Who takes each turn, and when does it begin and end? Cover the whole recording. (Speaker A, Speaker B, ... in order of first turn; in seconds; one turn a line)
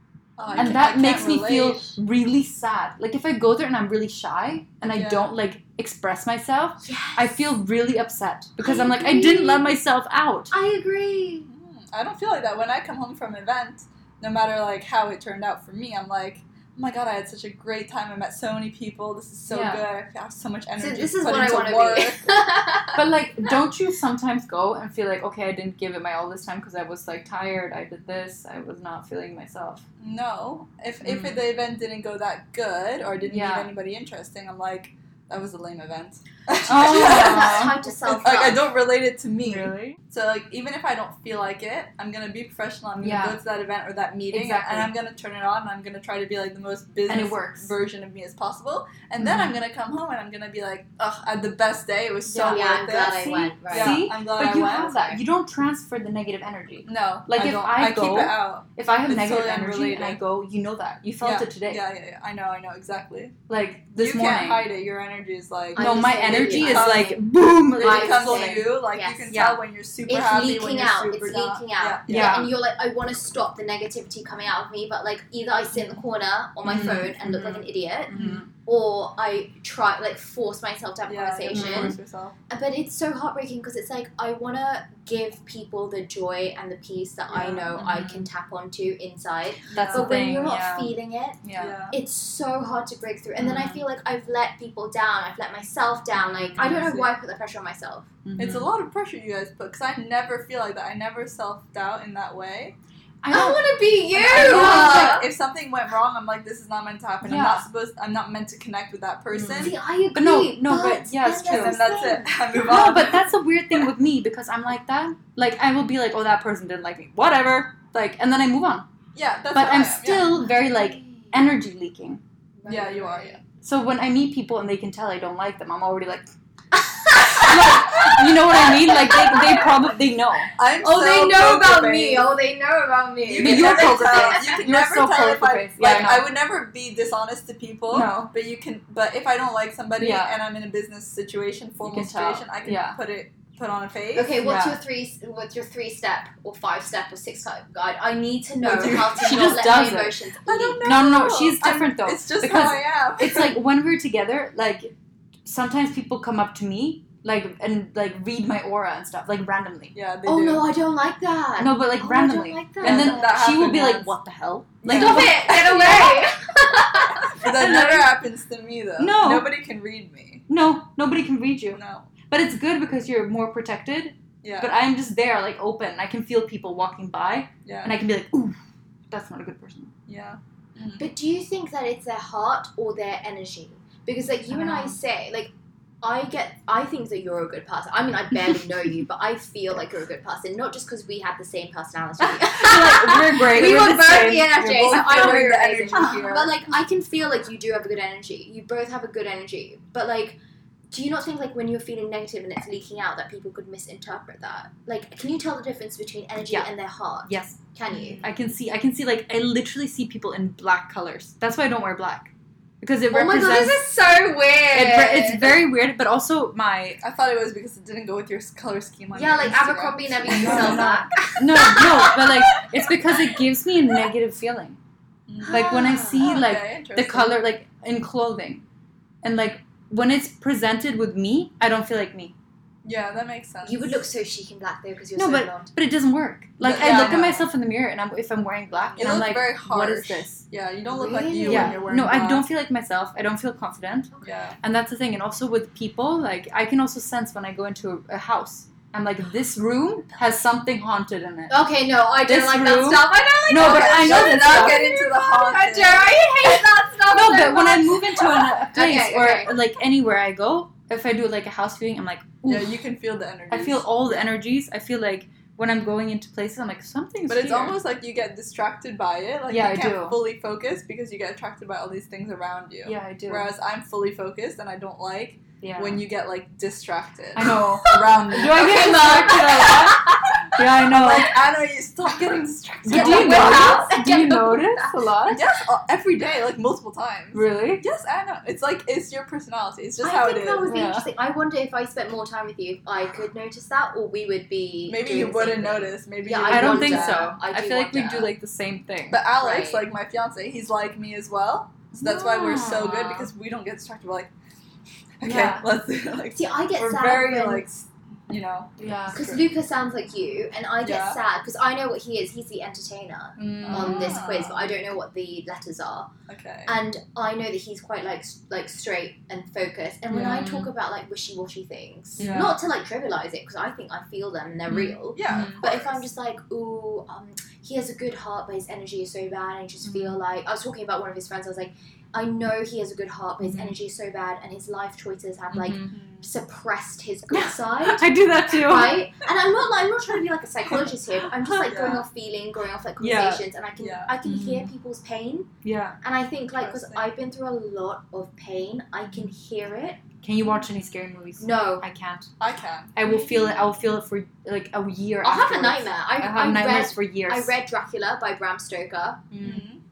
Speaker A: 0.4-1.9
Speaker B: 0.4-1.1
Speaker C: 0.6-10.5
Speaker A: 4.8-5.3
Speaker B: 6.8-7.5
Speaker B: 8.6-9.7
Speaker B: 10.5-11.5
Speaker A: 11.5-22.2
Speaker C: 19.5-19.8
Speaker B: 20.8-23.0
Speaker C: 22.9-29.8
Speaker A: 30.0-54.9
Speaker C: 31.0-31.4
Speaker C: 33.2-33.7
Speaker C: 36.7-37.8
Speaker B: 36.7-38.7
Speaker C: 39.4-40.0
Speaker C: 43.0-43.4
Speaker C: 44.3-44.9
Speaker C: 47.1-47.7
Speaker C: 49.2-49.6
Speaker C: 52.3-61.8
Speaker B: 52.5-55.2
Speaker A: 56.9-60.2
Speaker A: 61.2-63.3
Speaker C: 63.5-64.7
Speaker A: 64.0-67.2
Speaker B: 65.7-69.3
Speaker C: 65.8-68.7
Speaker A: 67.8-72.5
Speaker C: 69.3-69.6
Speaker B: 70.1-82.0
Speaker C: 72.1-72.5
Speaker C: 76.6-78.5
Speaker A: 78.1-78.4
Speaker A: 81.1-82.3
Speaker C: 81.5-82.0
Speaker B: 82.5-98.1
Speaker A: 87.3-87.7
Speaker C: 87.7-88.3
Speaker A: 89.7-90.2
Speaker C: 89.7-91.8
Speaker A: 91.6-91.9
Speaker C: 93.4-93.8
Speaker A: 96.5-97.1
Speaker C: 96.6-96.9
Speaker C: 98.2-98.7
Speaker A: 98.4-102.8
Speaker C: 103.2-105.2
Speaker B: 103.3-105.2
Speaker A: 104.1-109.8
Speaker C: 107.2-107.7
Speaker C: 109.3-111.8
Speaker B: 109.5-112.7
Speaker A: 111.4-113.3
Speaker C: 112.5-118.9
Speaker A: 119.1-120.4
Speaker C: 119.5-122.2
Speaker B: 120.1-121.5
Speaker B: 122.6-123.4
Speaker A: 122.7-123.4
Speaker C: 123.6-126.3
Speaker B: 126.9-129.7
Speaker C: 127.1-130.5
Speaker A: 130.6-132.3
Speaker B: 130.8-134.5
Speaker A: 133.2-144.4
Speaker C: 133.4-136.3
Speaker C: 137.9-138.3
Speaker C: 140.0-140.4
Speaker C: 141.8-143.0
Speaker B: 144.1-150.8
Speaker C: 144.4-144.8
Speaker A: 148.7-149.3
Speaker C: 148.7-150.2
Speaker A: 150.4-153.6
Speaker C: 150.8-154.9
Speaker C: 155.4-159.9
Speaker A: 159.9-160.7
Speaker B: 160.2-163.4
Speaker C: 161.6-166.3
Speaker A: 162.8-164.1
Speaker A: 164.8-165.4
Speaker B: 164.9-167.3
Speaker A: 167.3-170.4
Speaker C: 167.4-168.1
Speaker C: 169.0-169.5
Speaker C: 170.5-178.6
Speaker A: 171.7-172.1
Speaker A: 174.4-174.7
Speaker A: 177.6-177.9
Speaker C: 179.1-179.9
Speaker A: 180.1-181.1
Speaker B: 181.0-200.4
Speaker C: 184.5-185.0
Speaker C: 192.3-196.2
Speaker A: 194.4-196.6
Speaker B: 200.9-208.3
Speaker C: 207.2-207.6
Speaker A: 207.9-208.3
Speaker C: 208.2-213.9
Speaker B: 213.1-215.6
Speaker C: 214.7-217.0
Speaker A: 217.0-221.1
Speaker B: 219.1-222.3
Speaker C: 220.3-224.8
Speaker A: 222.2-222.6
Speaker A: 225.3-227.4
Speaker B: 225.4-226.4
Speaker C: 225.5-228.6
Speaker C: 229.2-232.3
Speaker A: 232.8-234.0
Speaker B: 233.6-235.7
Speaker C: 235.2-240.4
Speaker A: 236.6-237.5
Speaker B: 236.7-237.3
Speaker B: 238.7-239.1
Speaker A: 239.0-242.5
Speaker B: 240.9-241.8
Speaker C: 241.4-251.6
Speaker B: 244.1-244.4
Speaker A: 244.2-244.6
Speaker B: 251.5-259.6
Speaker C: 252.2-254.9
Speaker A: 253.5-256.4
Speaker C: 257.1-262.8
Speaker A: 262.4-264.0
Speaker C: 263.5-267.8
Speaker A: 267.3-279.8
Speaker C: 269.5-270.2
Speaker C: 272.8-273.5
Speaker C: 275.6-276.0
Speaker C: 277.3-281.3
Speaker B: 277.4-280.7
Speaker A: 280.8-283.9
Speaker C: 282.8-285.4
Speaker B: 282.9-284.9
Speaker A: 285.3-290.7
Speaker C: 287.3-287.8
Speaker B: 290.0-298.3
Speaker C: 290.6-291.1
Speaker A: 294.9-297.3
Speaker C: 296.5-299.2
Speaker A: 299.1-304.3
Speaker B: 299.4-299.9
Speaker C: 301.9-303.3
Speaker A: 305.2-309.5
Speaker C: 305.2-305.7
Speaker B: 306.3-307.7
Speaker C: 308.8-309.2
Speaker B: 309.1-316.1
Speaker A: 310.8-311.2
Speaker C: 313.4-314.2
Speaker A: 313.5-314.8
Speaker A: 316.3-316.8
Speaker B: 316.6-345.5
Speaker C: 320.1-320.7
Speaker A: 322.2-322.6
Speaker C: 324.7-325.6
Speaker A: 325.1-326.0
Speaker C: 329.8-330.2
Speaker C: 333.4-333.8
Speaker C: 335.5-336.0
Speaker A: 335.9-336.3
Speaker C: 337.3-339.1
Speaker A: 341.4-342.1
Speaker C: 343.0-343.4
Speaker A: 343.8-344.2
Speaker C: 344.2-344.7
Speaker C: 345.6-346.0
Speaker B: 346.0-350.0
Speaker A: 346.5-347.1
Speaker C: 350.2-352.3
Speaker B: 351.4-351.9
Speaker A: 352.4-352.9
Speaker C: 352.9-357.5
Speaker B: 353.0-353.8
Speaker B: 355.2-359.3
Speaker C: 359.3-359.6
Speaker A: 359.4-359.8